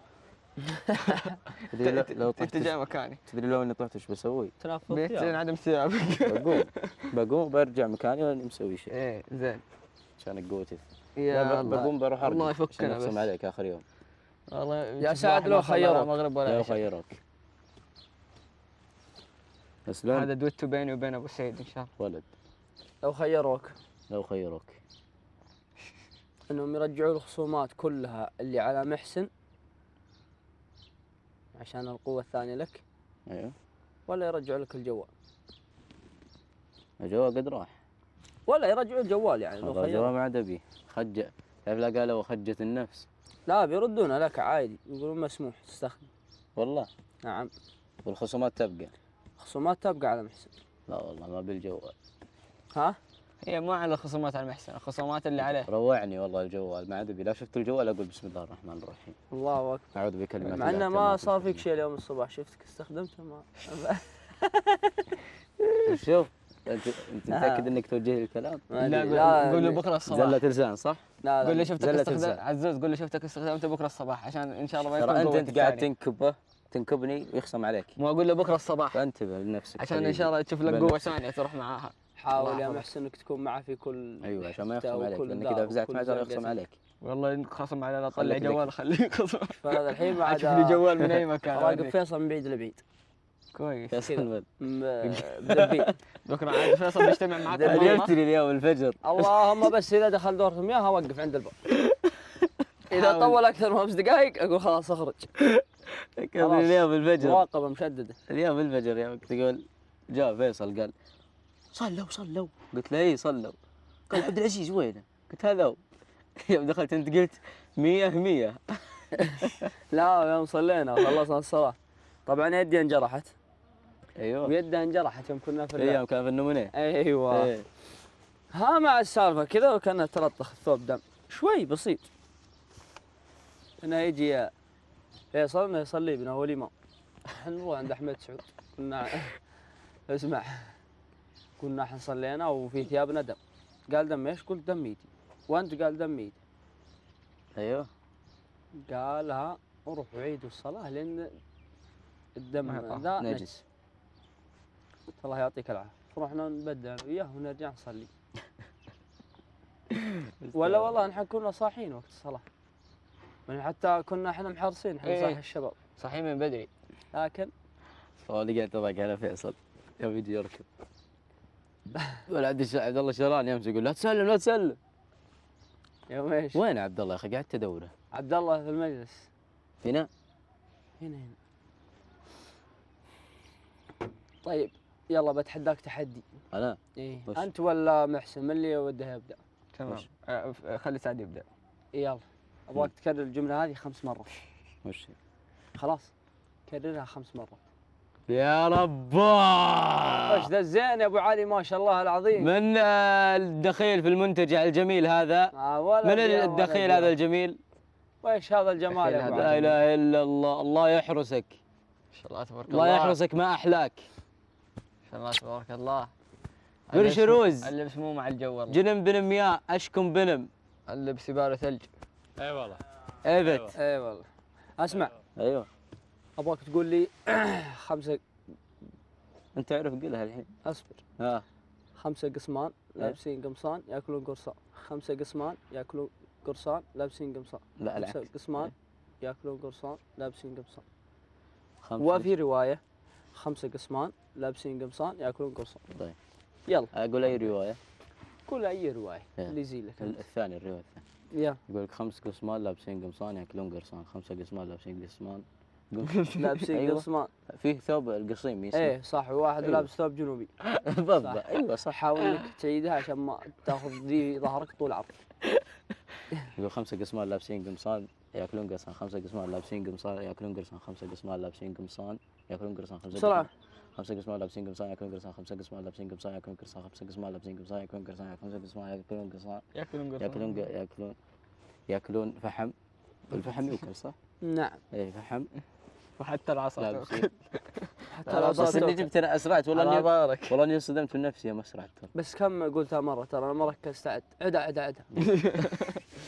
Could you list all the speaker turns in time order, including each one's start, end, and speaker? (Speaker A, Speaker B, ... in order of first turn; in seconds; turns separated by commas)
Speaker A: 0.8-3.2, Speaker B: 1.7-2.8, Speaker B: 3.3-4.5, Speaker C: 4.6-5.4, Speaker A: 4.9-7.1, Speaker B: 6.3-8.9, Speaker A: 8.9-9.6, Speaker B: 10.2-13.8, Speaker A: 11.2-13.3, Speaker A: 14.5-16.8, Speaker C: 15.0-16.2, Speaker B: 16.4-17.2, Speaker B: 19.9-20.3, Speaker A: 20.1-21.9, Speaker B: 22.0-22.3, Speaker C: 23.0-23.7, Speaker B: 24.1-24.8, Speaker C: 26.5-29.3, Speaker C: 31.6-32.8, Speaker B: 33.3-33.5, Speaker C: 34.1-35.1, Speaker B: 37.0-37.8, Speaker C: 38.5-40.1, Speaker B: 39.6-43.1, Speaker C: 43.5-46.1, Speaker B: 46.6-46.9, Speaker C: 47.2-47.5, Speaker B: 48.0-48.9, Speaker C: 49.4-50.5, Speaker B: 50.9-51.9, Speaker A: 53.4-55.7, Speaker B: 55.4-59.2, Speaker C: 59.3-60.0, Speaker B: 60.0-61.6, Speaker A: 60.4-60.8, Speaker C: 60.5-65.2, Speaker B: 65.9-68.7, Speaker C: 67.3-67.7, Speaker C: 68.7-69.8, Speaker A: 68.8-70.4, Speaker B: 70.1-71.0, Speaker C: 71.2-71.7, Speaker A: 71.4-75.9, Speaker B: 71.8-72.4, Speaker B: 74.9-78.0, Speaker A: 78.0-79.0, Speaker B: 78.9-81.2, Speaker A: 79.8-82.8, Speaker C: 82.2-86.6, Speaker B: 84.2-86.8, Speaker A: 87.0-91.9, Speaker B: 88.1-88.7, Speaker C: 89.6-92.8, Speaker A: 93.5-94.1, Speaker B: 93.9-94.5, Speaker C: 94.1-96.0, Speaker B: 95.0-95.9, Speaker A: 96.2-98.2, Speaker B: 96.5-99.4, Speaker C: 97.5-98.1, Speaker C: 99.0-101.6, Speaker A: 102.9-103.4, Speaker C: 102.9-105.3, Speaker B: 105.4-107.4, Speaker C: 106.4-108.2, Speaker B: 108.3-110.9, Speaker B: 111.7-113.6, Speaker B: 114.1-115.8, Speaker B: 116.4-119.7, Speaker C: 119.9-123.3, Speaker B: 124.2-124.5, Speaker C: 124.4-126.0, Speaker B: 125.8-126.7, Speaker C: 126.7-127.5, Speaker B: 127.3-127.7, Speaker C: 128.5-132.1, Speaker C: 133.8-134.5, Speaker C: 135.3-136.7, Speaker C: 137.3-139.4, Speaker C: 140.1-140.8, Speaker C: 141.6-146.4, Speaker B: 147.6-147.9, Speaker C: 148.8-151.3, Speaker C: 152.4-153.5, Speaker A: 152.6-153.1, Speaker B: 153.2-153.6, Speaker C: 155.2-158.1, Speaker B: 160.4-161.0, Speaker C: 160.5-162.4, Speaker C: 163.5-165.8, Speaker A: 165.0-165.4, Speaker A: 166.0-166.7, Speaker C: 167.1-167.5, Speaker B: 168.2-170.7, Speaker B: 172.3-174.8, Speaker C: 176.1-176.6, Speaker B: 176.5-177.9, Speaker C: 178.1-179.3, Speaker B: 179.8-180.1, Speaker C: 181.0-181.4, Speaker C: 184.4-186.2, Speaker B: 186.5-187.5, Speaker C: 187.0-189.4, Speaker A: 189.8-191.5, Speaker C: 191.9-194.4, Speaker B: 194.8-195.2, Speaker C: 195.8-196.1, Speaker C: 196.7-197.6, Speaker B: 198.3-200.5, Speaker C: 200.3-202.5, Speaker B: 202.3-207.6, Speaker C: 205.5-207.2, Speaker C: 208.2-209.7, Speaker A: 208.9-209.8, Speaker B: 209.2-211.6, Speaker A: 212.1-213.2, Speaker B: 212.7-214.1, Speaker A: 215.1-216.1, Speaker B: 216.9-217.7, Speaker A: 216.9-218.8, Speaker B: 218.7-220.5, Speaker A: 220.9-221.9, Speaker B: 223.2-223.8, Speaker C: 223.7-224.3, Speaker C: 224.8-225.2, Speaker B: 225.4-225.7, Speaker C: 226.4-228.2, Speaker B: 229.6-230.5, Speaker C: 230.6-231.0, Speaker B: 231.2-231.4, Speaker C: 231.9-240.8, Speaker B: 237.8-238.7, Speaker B: 241.8-242.3, Speaker C: 242.0-242.8, Speaker C: 243.3-245.8, Speaker B: 246.9-247.8, Speaker C: 248.5-250.2, Speaker B: 249.4-251.0, Speaker C: 251.3-251.6, Speaker B: 251.7-258.9, Speaker A: 256.1-256.4, Speaker C: 256.3-257.3, Speaker C: 258.7-260.5, Speaker B: 259.6-259.9, Speaker B: 260.6-262.5, Speaker C: 261.2-265.1, Speaker B: 266.6-279.6, Speaker C: 273.1-273.5, Speaker A: 279.7-280.6, Speaker B: 280.2-281.2, Speaker B: 281.9-282.7, Speaker B: 283.3-284.2, Speaker C: 284.4-284.8, Speaker B: 284.9-285.5, Speaker A: 286.2-289.0, Speaker B: 286.8-287.3, Speaker C: 288.1-289.1, Speaker B: 288.3-292.1, Speaker A: 289.7-290.6, Speaker C: 292.1-295.1, Speaker B: 295.1-295.4, Speaker A: 295.2-296.0